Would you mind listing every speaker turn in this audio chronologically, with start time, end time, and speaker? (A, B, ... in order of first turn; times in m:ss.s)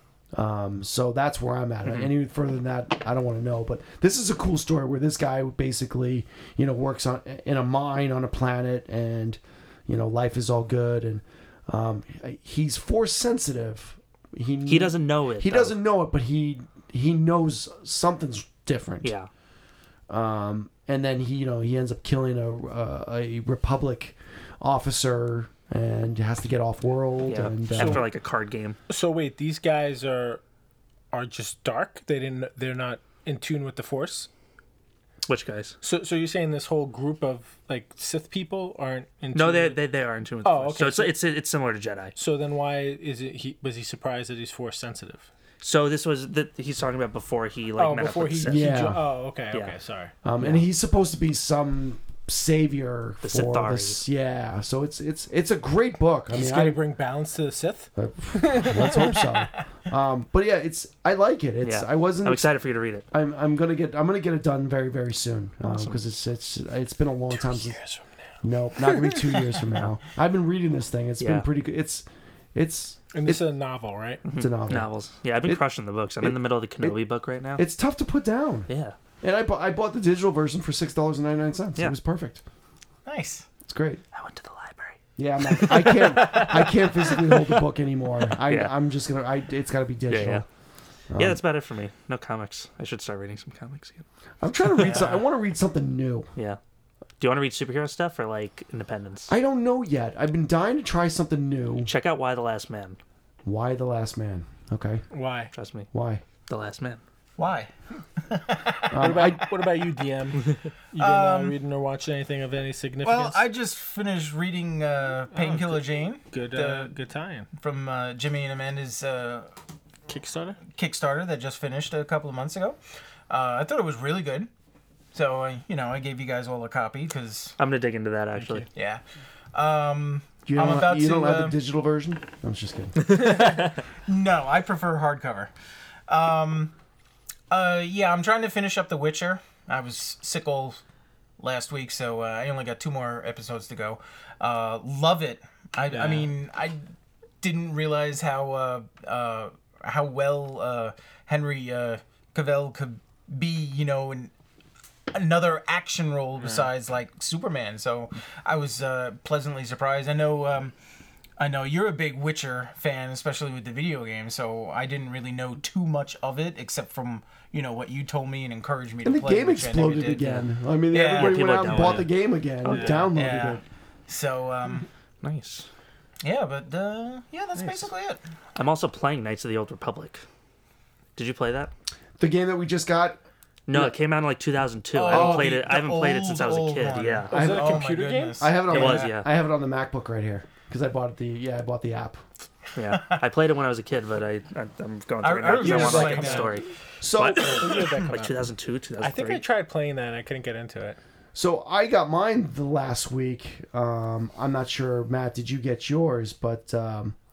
0:00.3-0:19.1 A
0:14.7-0:15.7 B
0:19.0-0:19.3 B
0:20.1-0:28.1 A
0:27.2-0:28.8 B
0:27.8-0:28.1 C
0:28.9-0:30.4 C
0:31.1-0:34.3 C
0:35.3-0:35.8 B
0:35.8-0:39.8 C
0:39.3-0:42.1 B
0:40.4-0:41.2 C
0:42.2-0:45.3 C
0:45.6-0:49.0 B
0:47.8-0:50.1 C
0:48.5-0:49.0 A
0:50.2-0:56.8 A
0:50.4-0:50.6 B
0:53.2-0:54.0 B
0:56.3-0:59.2 C
0:58.0-1:02.5 A
1:01.6-1:03.1 B
1:03.1-1:07.8 A
1:05.6-1:06.0 B
1:07.4-1:08.2 C
1:08.4-1:13.4 A
1:08.9-1:09.5 C
1:11.2-1:11.5 B
1:13.1-1:14.2 C
1:14.2-1:17.6 B
1:14.4-1:14.9 A
1:16.2-1:17.0 A
1:17.6-1:18.7 A
1:18.7-1:19.0 B
1:19.2-1:22.4 A
1:23.1-1:23.5 D
1:23.7-1:24.0 A
1:24.1-1:26.5 B
1:25.2-1:30.4 A
1:26.2-1:26.5 C
1:28.4-1:28.7 B
1:30.1-1:30.4 B
1:31.1-1:31.4 A
1:31.2-1:34.0 B
1:34.4-1:36.3 A
1:34.6-1:35.2 B
1:37.2-1:39.3 B
1:39.3-1:41.9 A
1:41.8-1:43.0 B
1:43.4-1:45.0 A
1:45.1-1:45.5 C
1:45.5-1:45.9 B
1:45.9-1:46.2 A
1:46.5-1:47.0 B
1:47.4-1:49.2 D
1:48.9-1:49.4 A
1:49.0-1:53.4 C
1:51.0-1:51.6 D
1:53.0-1:56.9 D
1:55.3-1:57.5 C
1:57.6-1:59.5 D
2:00.1-2:00.6 C
2:00.7-2:02.8 D
2:03.3-2:04.5 D
2:05.1-2:07.6 D
2:07.6-2:08.7 B
2:08.4-2:08.7 C
2:08.8-2:09.0 D
2:09.5-2:11.6 D
2:10.5-2:13.0 A
2:13.0-2:13.6 B
2:13.1-2:15.5 D
2:16.1-2:16.7 D
2:17.5-2:20.8 D
2:21.4-2:26.8 D
2:25.9-2:26.3 C
2:27.4-2:34.3 D
2:35.1-2:40.8 D
2:36.4-2:36.7 C
2:41.4-2:52.0 D
2:49.0-2:53.6 A
2:51.0-2:53.2 B
2:52.7-2:54.9 D
2:52.7-2:53.0 C
2:55.2-2:55.7 B
2:56.2-2:58.2 D
2:57.6-2:57.9 B
2:58.6-3:00.2 B
3:01.2-3:01.7 B
3:02.2-3:03.2 A
3:03.7-3:07.4 B
3:04.9-3:09.1 D
3:05.1-3:05.5 A
3:07.3-3:08.6 C
3:07.3-3:07.8 A
3:08.4-3:12.2 A
3:08.7-3:09.3 B
3:12.8-3:19.4 B
3:15.2-3:16.6 D
3:15.5-3:16.7 C
3:15.5-3:16.4 A
3:17.0-3:18.0 A
3:17.2-3:18.5 C
3:19.0-3:21.0 C
3:21.3-3:27.2 A